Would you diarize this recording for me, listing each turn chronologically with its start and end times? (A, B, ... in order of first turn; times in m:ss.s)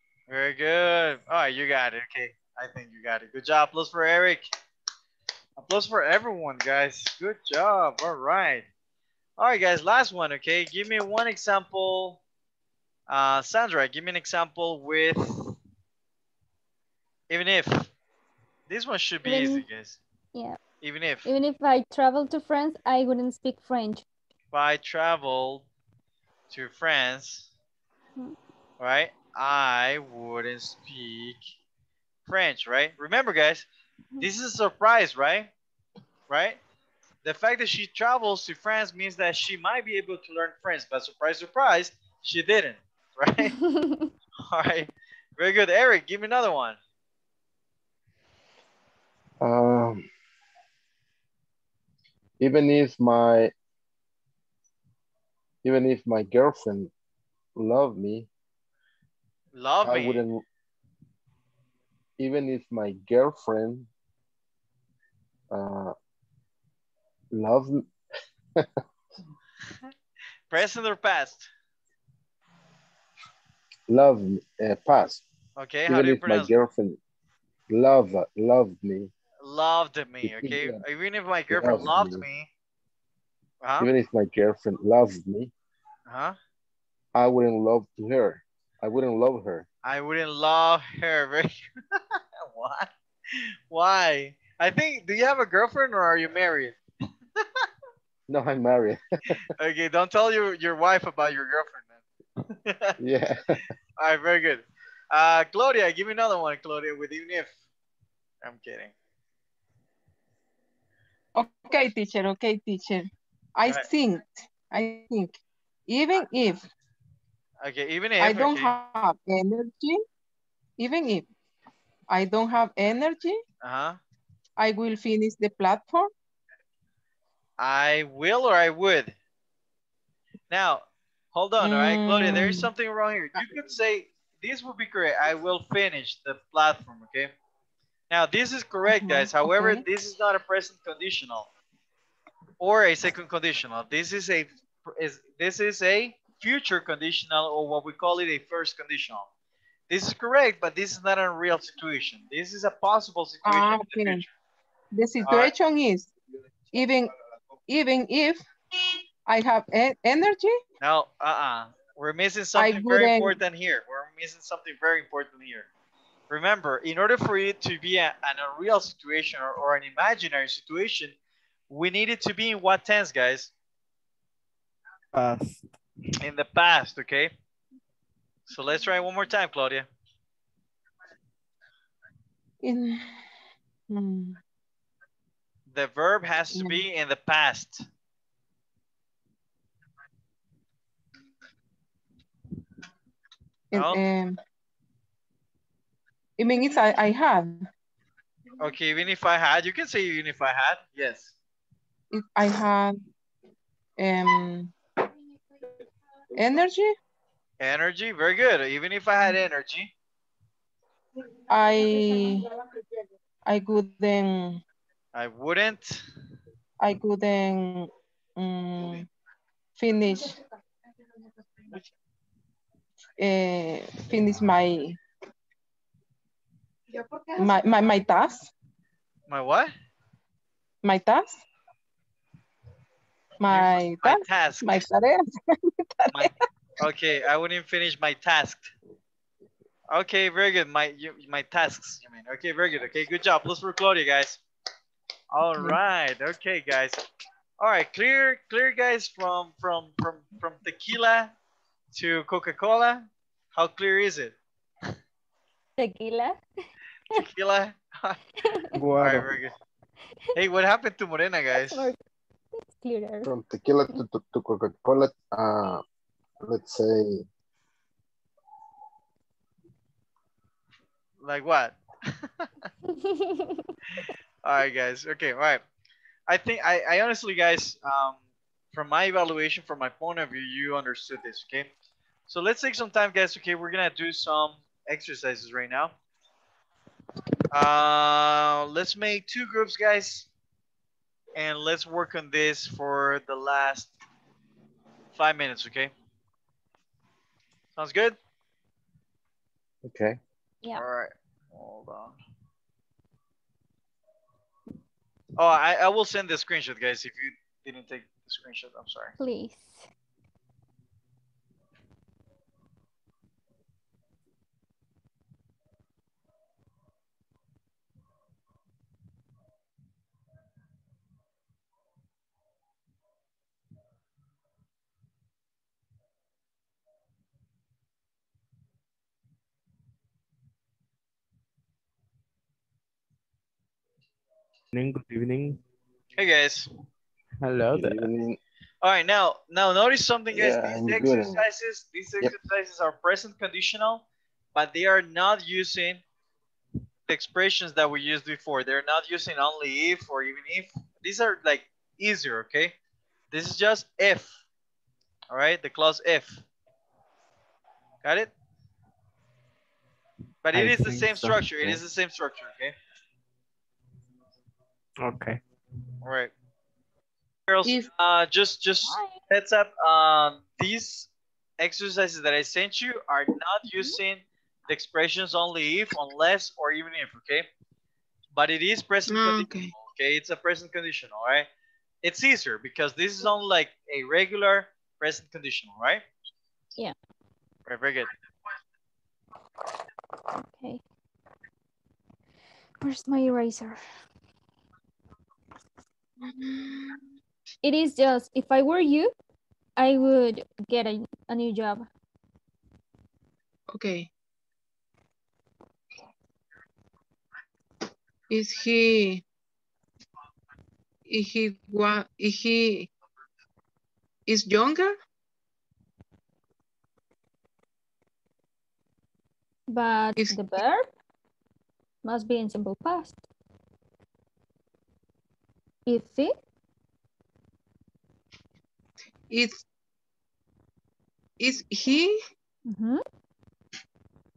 0:00.3-0:04.5 A
0:05.6-0:08.7 A
0:09.4-0:12.2 A
0:13.1-0:15.6 A
0:17.3-0:17.9 A
0:18.7-0:20.0 A
0:19.2-0:19.6 B
0:20.8-0:21.3 A
0:21.3-0:24.0 B
0:24.5-0:25.7 A
0:26.5-0:27.5 A
0:28.8-0:31.4 A
0:32.3-0:33.7 A
0:34.2-0:35.5 A
0:36.3-0:36.6 A
0:37.2-0:43.6 A
0:43.4-0:44.1 B
0:44.4-0:46.8 A
0:49.4-0:50.1 C
0:52.4-0:53.5 C
0:55.6-0:56.9 C
0:57.6-0:58.3 C
0:59.6-1:00.3 A
0:59.8-1:00.4 C
1:02.2-1:03.9 C
1:05.5-1:06.0 C
1:07.3-1:07.9 C
1:10.5-1:11.5 A
1:13.9-1:15.2 C
1:15.6-1:16.5 A
1:15.9-1:17.0 C
1:17.7-1:19.1 C
1:19.4-1:22.5 A
1:20.2-1:20.8 C
1:21.5-1:22.2 C
1:23.6-1:23.9 A
1:23.8-1:25.5 C
1:26.1-1:26.4 A
1:27.1-1:29.7 C
1:29.8-1:36.8 A
1:38.3-1:39.4 C
1:39.6-1:43.0 A
1:43.0-1:43.6 C
1:44.0-1:47.5 A
1:48.4-1:48.9 A
1:51.4-1:55.4 D
1:55.9-1:56.7 D
1:57.6-1:58.7 A
1:58.2-2:00.0 D
2:00.8-2:01.3 D
2:02.1-2:03.4 D
2:03.6-2:04.0 A
2:04.6-2:06.1 D
2:07.6-2:09.2 A
2:10.5-2:17.3 A
2:11.6-2:12.7 D
2:18.1-2:21.5 A
2:18.9-2:19.8 D
2:22.6-2:29.3 A
2:29.9-2:34.3 A
2:33.4-2:34.2 D
2:35.0-2:36.1 D
2:35.2-2:35.5 A
2:36.7-2:37.1 D
2:37.7-2:38.4 D
2:39.3-2:40.6 D
2:40.8-2:45.7 A
2:42.6-2:43.4 D
2:46.3-2:51.2 A
2:51.7-2:53.5 A
2:55.1-2:55.7 E
2:56.2-2:57.3 A
2:58.5-2:59.9 A
3:02.6-3:03.2 D
3:03.9-3:04.4 D
3:05.7-3:07.8 A
3:13.7-3:14.4 D
3:13.7-3:14.0 A
3:16.4-3:17.7 D
3:18.6-3:21.3 A
3:22.1-3:23.0 D
3:24.0-3:24.7 D
3:26.4-3:27.0 D
3:27.6-3:29.9 A
3:31.5-3:32.5 D
3:33.5-3:34.6 D
3:35.2-3:36.0 A
3:36.8-3:39.1 D
3:39.8-3:40.4 D
3:43.2-3:45.0 D
3:47.4-3:48.5 D
3:49.3-3:49.7 A
3:50.8-3:51.4 D
3:53.4-3:56.3 D
3:53.5-3:54.8 A
3:56.1-3:58.7 A
3:59.9-4:04.4 A
4:05.3-4:07.0 A
4:07.6-4:11.3 A
4:11.9-4:14.4 A
4:15.8-4:16.4 B
4:17.1-4:18.2 A
4:18.7-4:19.3 E
4:19.0-4:19.6 A
4:20.4-4:21.9 A
4:21.6-4:22.0 B
4:22.7-4:23.3 B
4:23.2-4:25.8 C
4:26.4-4:27.2 C
4:31.2-4:32.5 A
4:32.9-4:33.7 B
4:34.4-4:35.6 A
4:36.3-4:38.2 A
4:38.7-4:41.7 A
4:42.3-4:46.0 A
4:47.5-4:50.3 A
4:51.4-4:53.9 A
4:55.1-4:55.9 A
4:57.8-4:58.2 A
4:59.8-5:00.2 C
5:00.8-5:02.2 A
5:05.4-5:09.1 A
5:09.2-5:09.9 B
5:34.7-5:35.6 E
5:36.2-5:36.7 A
5:37.4-5:38.1 E
5:37.7-5:38.4 C
5:38.8-5:46.0 A
5:40.3-5:41.4 C
5:47.1-5:52.8 A
5:53.3-5:54.4 A
5:55.3-5:56.4 A
5:58.0-5:58.3 A
6:00.4-6:02.8 A
6:00.5-6:01.8 E
6:05.0-6:05.4 E
6:06.0-6:06.3 A
6:07.5-6:17.5 A
6:08.9-6:09.2 B
6:18.3-6:21.5 A
6:19.1-6:19.7 D
6:22.0-6:26.0 A
6:27.7-6:28.1 A
6:30.4-6:30.8 B
6:32.8-6:33.8 B
6:36.2-6:37.0 D
6:37.6-6:39.1 B
6:39.8-6:41.8 B
6:43.7-6:44.1 D
6:48.3-6:49.2 D
6:51.1-6:52.9 D
6:54.3-6:55.0 D
6:59.7-7:00.9 B
7:02.0-7:03.2 B
7:05.9-7:06.3 B
7:09.3-7:09.6 D
7:11.4-7:12.2 D
7:12.7-7:13.0 B